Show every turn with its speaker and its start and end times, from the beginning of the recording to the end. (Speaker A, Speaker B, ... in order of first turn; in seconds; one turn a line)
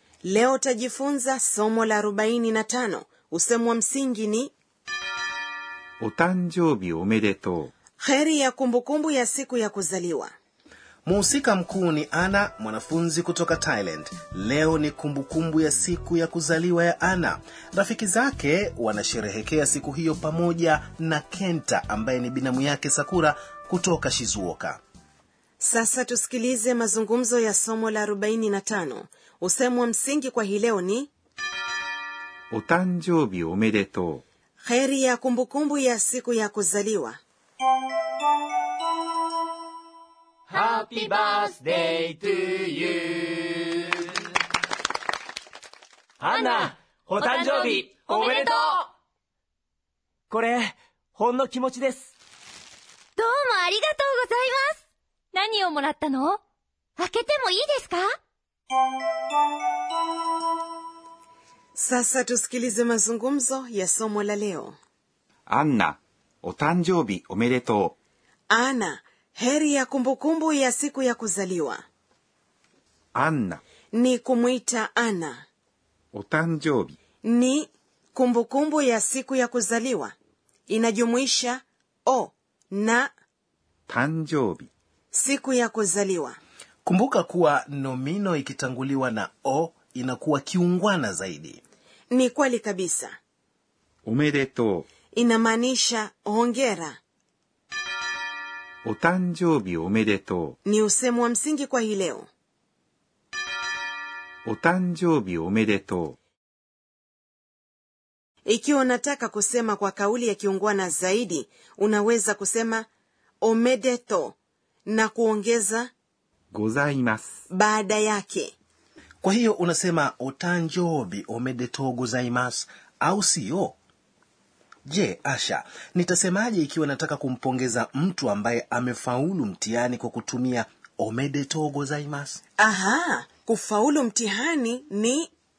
Speaker A: 0.2-4.5
Speaker B: 6.0-7.7
Speaker A: 8.0-10.3
Speaker C: 11.1-24.8
Speaker A: 25.6-31.1
Speaker B: 32.5-34.2
Speaker A: 34.6-37.2
Speaker D: 40.5-43.8
Speaker D: 46.2-48.9
Speaker E: 46.3-48.6
Speaker D: 50.3-52.1
Speaker E: 53.2-54.8
Speaker E: 55.3-56.4
Speaker E: 57.0-58.1
Speaker A: 61.8-64.8
Speaker B: 65.5-68.0
Speaker A: 68.5-71.8
Speaker B: 73.2-73.6
Speaker A: 73.9-75.4
Speaker B: 76.1-77.0
Speaker A: 77.2-80.1
Speaker A: 80.7-83.1
Speaker B: 83.9-84.7
Speaker A: 85.1-86.4
Speaker C: 86.8-91.6
Speaker A: 92.1-93.2
Speaker B: 94.0-94.9
Speaker A: 95.1-97.0
Speaker B: 98.8-100.6
Speaker A: 100.7-102.3
Speaker B: 104.5-106.2
Speaker A: 108.5-112.9
Speaker A: 113.4-114.4
Speaker A: 114.9-115.9
Speaker B: 116.5-117.4
Speaker A: 117.5-118.5
Speaker C: 119.2-123.8
Speaker C: 124.9-132.4
Speaker A: 132.6-135.3